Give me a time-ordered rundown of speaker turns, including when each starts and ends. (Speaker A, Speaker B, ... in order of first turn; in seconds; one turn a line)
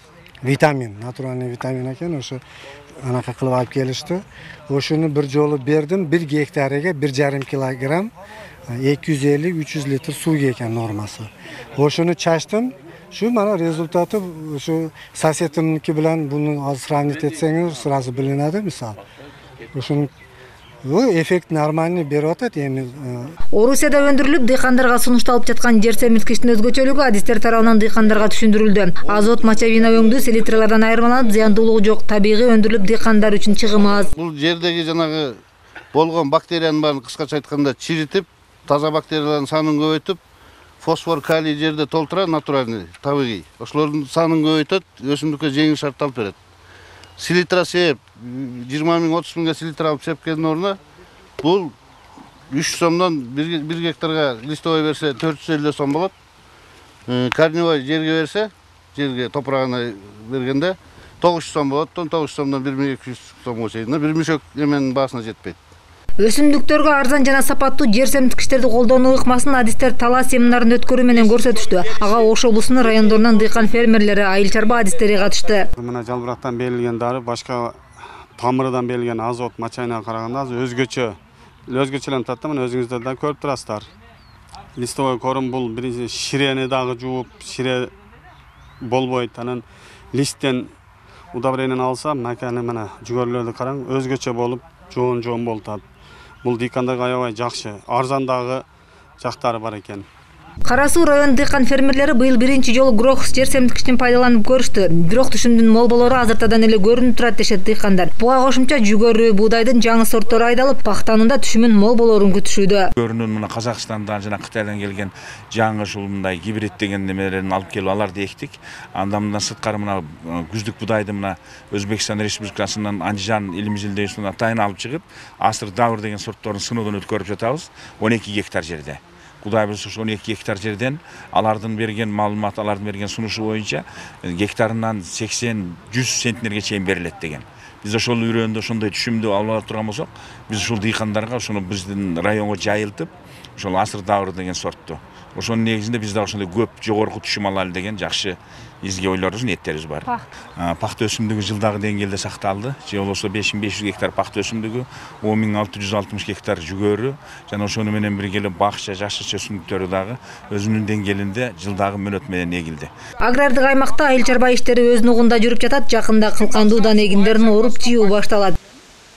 Speaker A: 0.4-2.4
Speaker A: 3.0-8.1
Speaker A: 8.7-19.0
Speaker A: 19.7-20.1
Speaker A: 20.9-23.4
Speaker B: 23.5-34.1
Speaker C: 29.1-29.4
Speaker C: 34.1-35.4
Speaker C: 35.9-40.2
Speaker C: 40.8-46.4
Speaker C: 47.2-50.8
Speaker C: 51.4-51.8
Speaker C: 52.5-56.1
Speaker C: 57.1-65.6
Speaker B: 66.2-75.7
Speaker D: 75.8-77.8
Speaker D: 78.4-83.9
Speaker D: 84.8-87.9
Speaker D: 88.8-90.7
Speaker D: 91.3-95.8
Speaker D: 96.4-98.7
Speaker D: 99.2-100.1
Speaker B: 100.7-112.9
Speaker E: 113.0-162.9
Speaker B: 163.2-168.6